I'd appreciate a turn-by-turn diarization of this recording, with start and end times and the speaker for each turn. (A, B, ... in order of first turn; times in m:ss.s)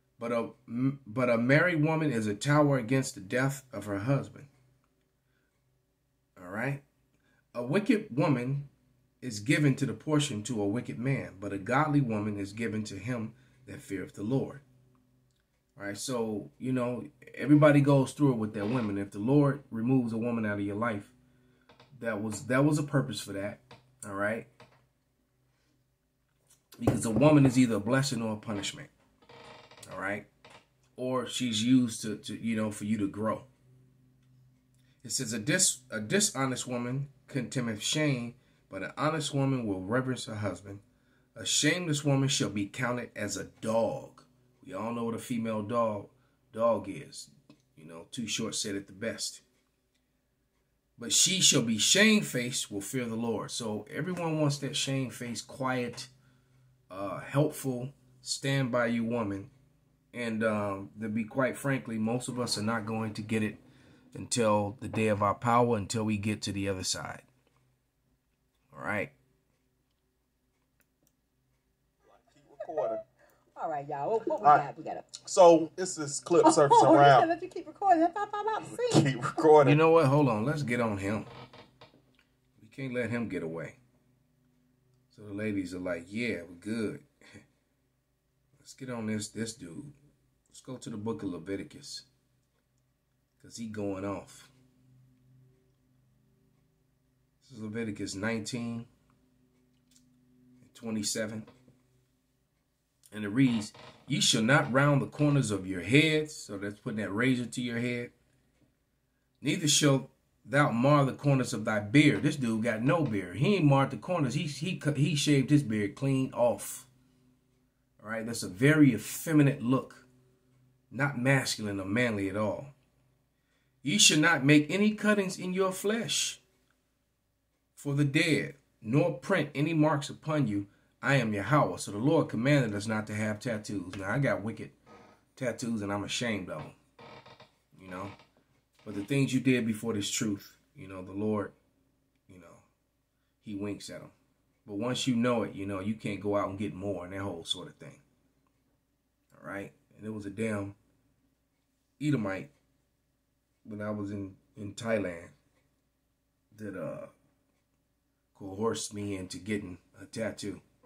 0:00.2-0:04.5 A
0:06.4-0:06.8 A
0:07.5-0:08.7 A
0:09.2-0:14.6 A
0:15.8-0:21.1 A
0:21.9-0:24.5 A
0:26.8-0:28.9 A
0:29.9-0:30.3 A
0:31.0-0:33.5 A
0:35.0-0:40.8 A
0:41.4-0:49.4 A
0:51.0-0:56.1 A
0:56.9-0:59.5 A
1:00.1-1:03.6 A
1:04.1-1:07.2 A
1:08.7-1:09.1 A
1:12.1-1:13.0 B
1:13.5-1:15.1 C
1:14.4-1:14.7 B
1:15.2-1:17.3 B
1:16.4-1:19.1 C
1:18.7-1:19.8 B
1:19.6-1:21.3 A
1:22.6-1:23.8 A
1:25.1-1:27.0 A
1:28.6-1:29.9 A
1:30.5-1:32.0 A
1:33.4-1:34.5 A
1:37.4-1:38.9 A
1:40.6-1:41.5 A
1:43.1-1:48.1 A
1:49.4-1:56.9 A
1:58.0-2:00.1 A
2:00.9-2:02.7 A
2:03.8-2:06.4 A
2:07.8-2:14.8 A
2:15.4-2:16.8 A
2:17.7-2:18.2 A
2:18.8-2:21.5 A
2:22.3-2:22.6 A
2:23.4-2:24.1 A
2:24.6-2:28.0 A
2:29.3-2:30.7 A
2:32.0-2:32.5 A
2:33.6-2:35.3 A
2:36.5-2:37.1 A
2:38.3-2:40.6 A